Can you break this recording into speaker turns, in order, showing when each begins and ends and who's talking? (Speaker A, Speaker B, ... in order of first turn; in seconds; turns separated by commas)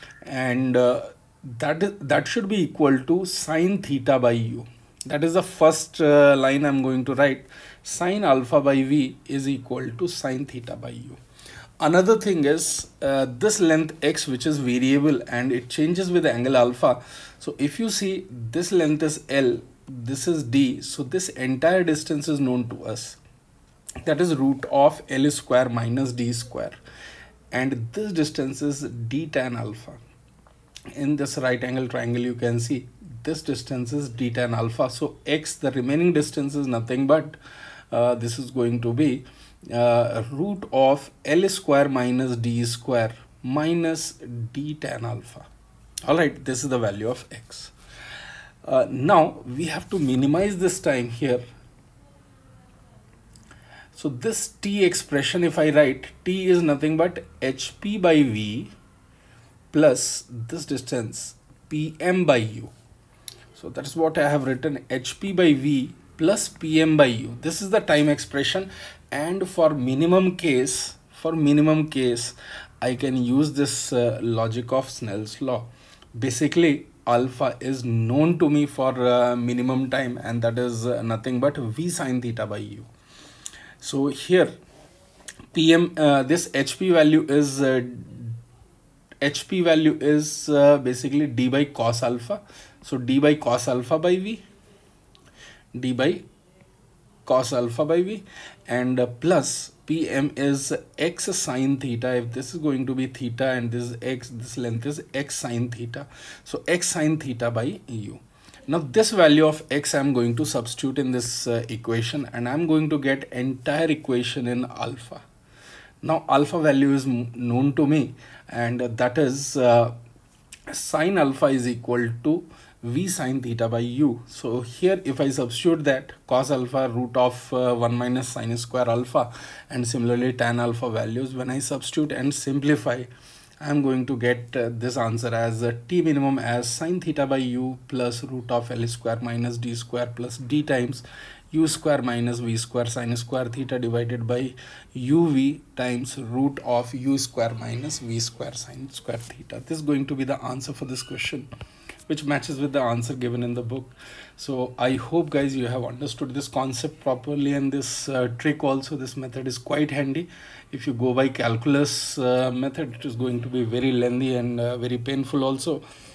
Speaker A: 0.2-11.2, Speaker A: 11.8-23.2, Speaker A: 24.0-26.8, Speaker A: 27.5-30.0, Speaker A: 30.9-37.4, Speaker A: 37.9-45.5, Speaker A: 46.1-47.7, Speaker A: 48.6-51.4, Speaker A: 53.9-58.7, Speaker A: 59.7-62.7, Speaker A: 63.5-82.9, Speaker A: 83.8-84.5, Speaker A: 85.5-88.4, Speaker A: 89.2-94.4, Speaker A: 95.7-96.2, Speaker A: 97.2-115.2, Speaker A: 116.0-119.9, Speaker A: 120.7-151.5, Speaker A: 152.1-165.8